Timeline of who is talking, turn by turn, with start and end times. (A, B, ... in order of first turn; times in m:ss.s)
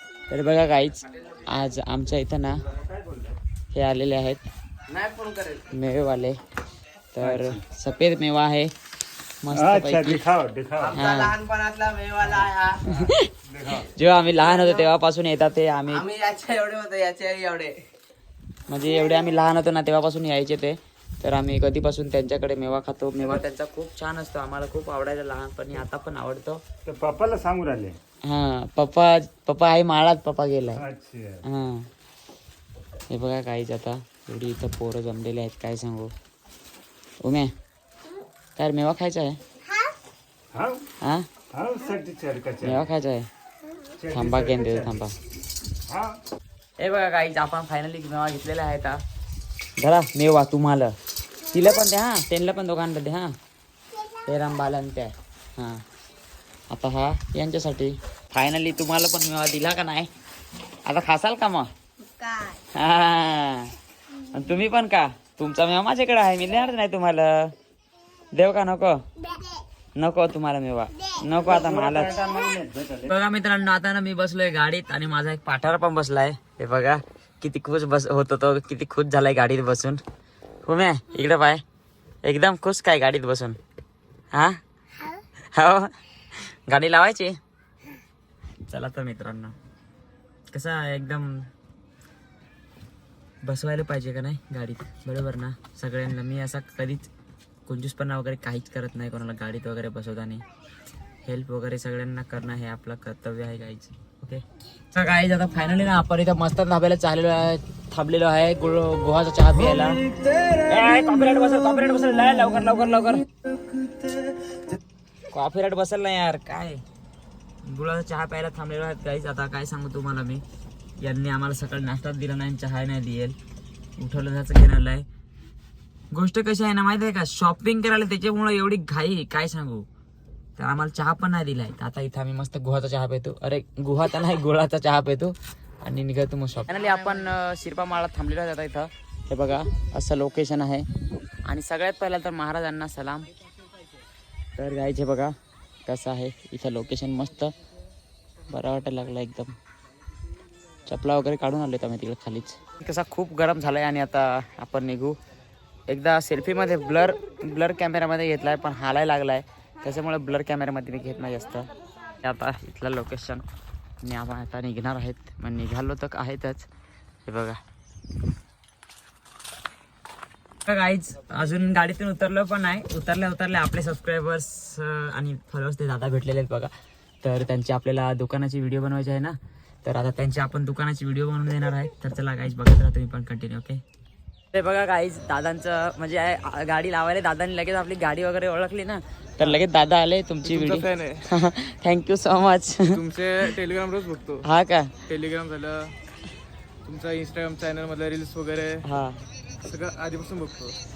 0:00.3-0:02.6 A
0:03.7-0:04.4 A
0:04.9-0:05.6 B
0:05.7-0:06.4 A
0:07.1-0:08.7 A
0:07.2-0:07.6 C
0:09.4-0:10.2 A
0:09.5-0:11.0 C
0:10.8-0:12.8 B
0:10.9-0:11.4 A
0:12.8-0:16.1 A
0:12.9-0:13.9 C
0:14.4-0:14.8 B
0:16.0-0:17.8 B
0:18.7-0:26.6 A
0:26.8-0:28.0 C
0:28.2-0:30.8 A
0:30.7-0:31.4 C
0:31.4-0:31.9 A
0:33.1-0:36.1 A
0:37.2-0:37.5 A
0:38.6-0:39.4 A
0:40.5-0:40.9 C
0:41.0-0:41.3 A
0:41.5-0:42.9 C
0:42.6-0:43.3 A
0:44.0-0:45.0 C
0:44.1-0:45.1 A
0:45.8-0:46.2 C
0:46.8-0:49.0 A
0:49.8-0:53.3 A
0:54.2-0:55.8 A
0:56.7-1:00.1 A
1:00.8-1:01.7 A
1:02.5-1:07.5 A
1:08.3-1:09.0 A
1:10.0-1:12.2 A
1:11.3-1:13.1 C
1:13.0-1:20.0 A
1:20.6-1:21.6 A
1:22.2-1:23.6 A
1:24.3-1:24.6 A
1:25.5-1:27.4 A
1:28.7-1:29.6 A
1:30.5-1:31.5 A
1:33.4-1:37.1 A
1:37.6-1:40.4 A
1:41.2-1:53.2 A
1:55.3-1:56.8 A
1:57.6-2:00.4 A
2:01.0-2:03.4 A
2:04.0-2:05.0 A
2:06.1-2:09.8 A
2:10.6-2:20.8 A
2:21.4-2:23.3 A
2:24.6-2:25.3 A
2:25.8-2:27.5 A
2:28.5-2:29.6 A
2:30.8-2:35.2 A
2:35.9-2:41.7 A
2:42.2-2:43.4 A
2:44.0-2:46.7 A
2:47.2-2:47.6 A
2:50.6-2:56.7 A
2:57.2-3:03.8 A
3:04.5-3:13.0 A
3:10.4-3:11.3 D
3:12.9-3:14.4 D
3:14.4-3:14.9 A
3:15.0-3:15.9 D
3:16.8-3:18.8 D
3:18.8-3:19.2 A
3:19.6-3:20.8 D